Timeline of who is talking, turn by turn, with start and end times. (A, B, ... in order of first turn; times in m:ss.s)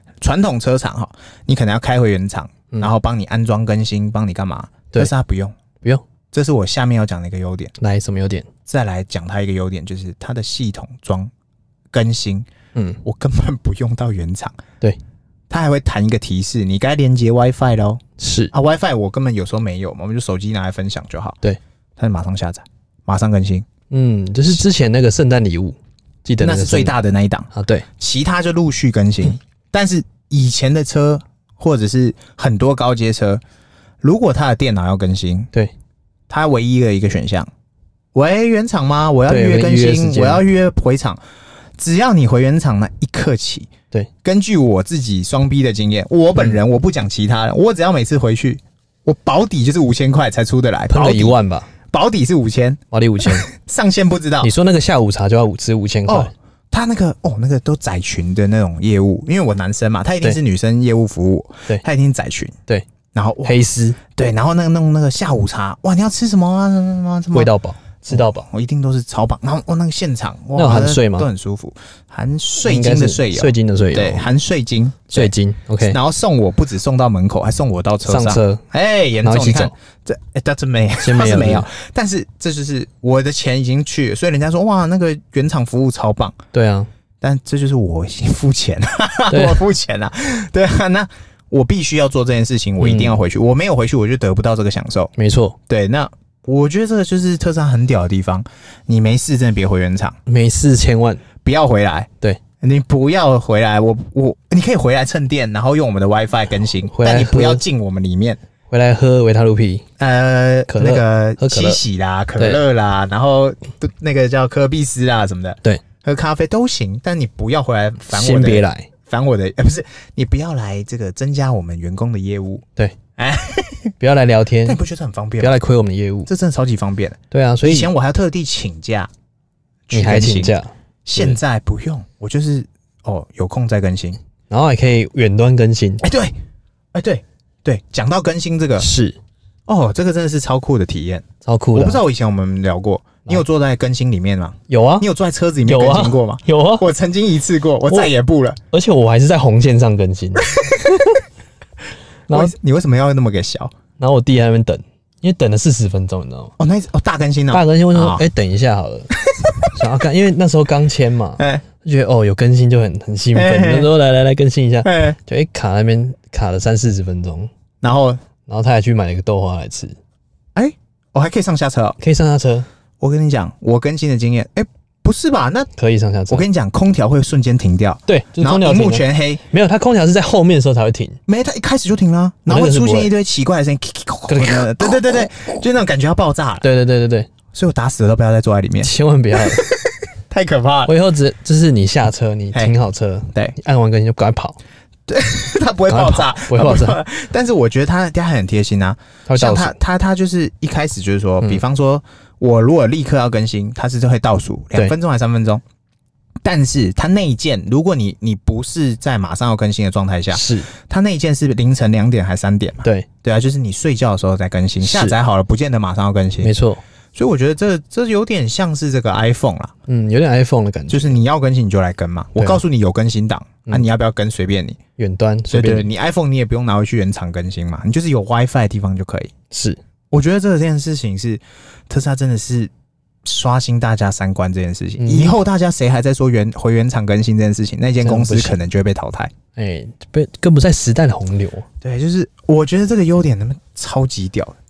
0:00.2-0:05.6 A
0:06.3-0:07.7 A
0:07.8-0:08.5 B
0:08.6-0:11.3 A
0:11.9-0:12.5 A
0:12.7-0:13.0 B
0:13.0-0:14.6 A
0:15.5-0:18.0 A
0:18.2-0:18.5 B
0:18.5-0:21.4 A
0:22.0-0:23.6 A
0:23.9-0:26.9 B
0:26.4-0:33.4 A
0:27.5-0:27.8 B
0:34.0-0:35.5 A
0:36.3-0:37.5 A
0:38.1-0:41.2 A
0:39.3-0:40.4 B
0:41.8-0:43.7 A
0:44.2-0:51.3 A
0:46.4-0:46.6 B
0:50.9-0:51.7 B
0:51.9-0:54.5 A
0:52.9-0:53.5 B
0:54.4-0:56.3 B
0:56.1-1:02.5 A
1:03.1-1:03.6 A
1:03.4-1:04.1 B
1:04.1-1:07.5 A
1:07.3-1:08.5 B
1:08.1-1:26.4 A
1:10.6-1:11.3 B
1:12.6-1:14.3 B
1:15.1-1:16.0 B
1:18.0-1:18.6 B
1:19.2-1:19.7 B
1:21.0-1:21.7 B
1:26.5-1:26.9 B
1:27.2-1:35.1 A
1:29.3-1:29.6 B
1:32.8-1:33.2 B
1:35.2-1:35.6 B
1:35.7-1:40.2 A
1:40.2-1:41.2 B
1:41.4-1:48.4 A
1:46.9-1:47.6 B
1:48.7-1:49.8 B
1:50.0-2:02.6 A
1:50.7-1:51.8 B
1:52.4-1:52.6 B
1:58.1-1:58.9 B
2:03.2-2:03.9 A
2:04.0-2:04.8 B
2:04.6-2:05.6 A
2:05.4-2:06.3 B
2:06.3-2:09.1 A
2:07.3-2:07.9 B
2:09.9-2:14.2 A
2:09.9-2:11.4 B
2:14.5-2:16.0 B
2:16.0-2:16.3 A
2:16.9-2:18.9 A
2:18.8-2:19.2 B
2:19.7-2:28.6 A
2:21.4-2:22.0 B
2:24.7-2:25.1 B
2:25.7-2:26.9 B
2:27.9-2:28.1 B
2:28.7-2:31.2 B
2:30.5-2:31.0 A
2:32.3-2:32.5 B
2:32.3-2:33.7 A
2:34.0-2:36.5 B
2:36.6-2:38.2 A
2:37.5-2:39.1 B
2:39.2-2:39.7 A
2:39.7-2:47.5 B
2:41.4-2:41.6 A
2:43.3-2:43.9 A
2:44.8-2:45.2 A
2:47.8-2:48.2 A
2:48.5-2:50.0 B
2:50.6-2:52.0 A
2:52.0-2:52.7 B
2:53.0-2:55.7 A
2:55.8-2:56.4 B
2:56.3-2:59.4 A
2:58.1-3:01.2 B
3:01.3-3:06.6 A
3:02.5-3:03.1 B
3:04.3-3:05.0 B
3:06.6-3:07.3 B
3:07.5-3:10.9 A
3:08.8-3:09.6 B
3:10.8-3:14.6 B
3:15.1-3:25.6 A
3:15.9-3:17.0 B
3:19.3-3:19.8 B
3:26.4-3:36.5 A
3:30.3-3:30.7 B
3:34.8-3:35.2 B
3:36.4-3:36.8 B
3:37.1-3:39.7 A
3:39.9-3:41.2 B
3:40.9-3:44.8 A
3:42.4-3:42.6 B
3:45.0-3:45.9 B
3:45.5-3:49.3 A
3:49.5-3:49.8 B
3:50.1-3:52.7 A
3:53.2-3:59.3 A
3:55.0-3:55.4 B
3:58.0-3:58.6 B
3:59.6-4:01.6 B
4:01.8-4:04.6 A